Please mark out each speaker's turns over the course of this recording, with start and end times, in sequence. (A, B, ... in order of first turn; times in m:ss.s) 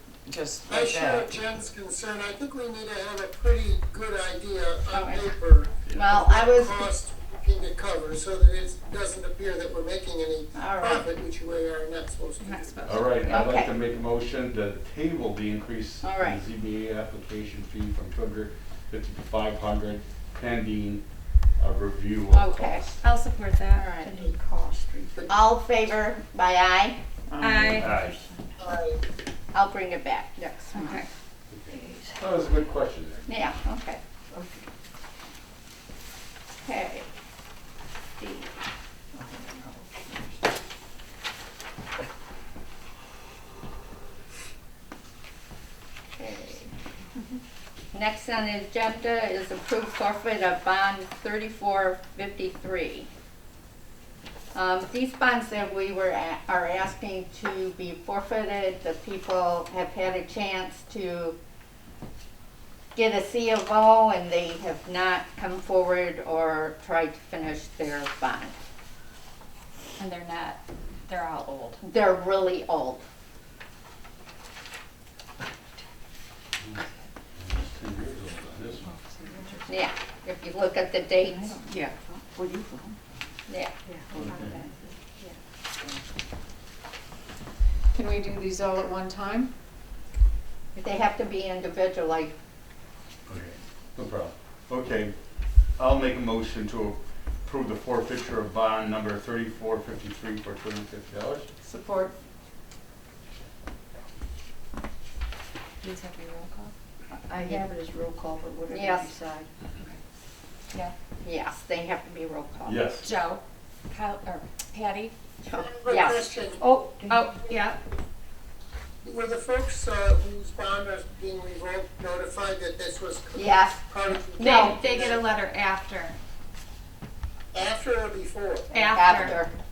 0:00.3-0:01.3 A
0:00.7-0:13.0 B
0:04.9-0:05.3 C
0:05.9-0:06.1 D
0:05.9-0:06.9 C
0:10.6-0:11.1 C
0:12.4-0:13.5 E
0:12.9-0:21.0 D
0:13.3-0:13.8 C
0:16.0-0:16.4 C
0:21.6-0:23.0 D
0:22.3-0:22.9 C
0:23.0-0:23.9 E
0:23.8-0:24.1 C
0:24.0-0:25.3 F
0:25.2-0:25.4 B
0:25.3-0:27.0 C
0:27.3-0:28.0 A
0:27.4-0:27.9 E
0:27.8-0:28.2 D
0:27.9-0:28.6 F
0:28.6-0:29.0 B
0:29.5-0:31.0 C
0:30.7-0:31.1 E
0:31.5-0:33.4 D
0:31.7-0:32.2 F
0:33.3-0:34.0 C
0:34.3-0:34.7 F
0:36.6-0:37.1 C
0:38.2-0:38.5 C
0:39.1-0:40.4 F
0:46.2-0:46.7 C
0:47.9-0:53.1 C
0:54.5-1:01.4 C
1:03.0-1:08.5 C
1:10.0-1:11.8 E
1:11.8-1:13.0 C
1:17.4-1:19.0 D
1:19.2-1:19.8 F
1:19.7-1:21.6 C
1:21.3-1:23.0 F
1:23.5-1:23.7 C
1:24.1-1:24.7 D
1:27.9-1:29.5 A
1:30.8-1:32.3 C
1:33.3-1:35.1 D
1:35.8-1:41.5 D
1:41.6-1:42.1 A
1:45.8-1:46.7 E
1:47.1-1:49.5 F
1:48.7-1:49.1 C
1:51.2-1:52.8 C
1:52.6-1:53.0 D
1:53.0-1:55.1 E
1:55.5-1:56.2 C
1:55.5-1:56.6 B
1:56.6-1:57.3 F
1:57.1-1:57.8 E
1:59.0-2:05.3 B
2:03.4-2:03.9 C
2:04.4-2:04.8 C
2:04.4-2:06.2 E
2:07.5-2:08.7 B
2:08.7-2:09.4 E
2:08.8-2:09.4 F
2:08.9-2:09.5 C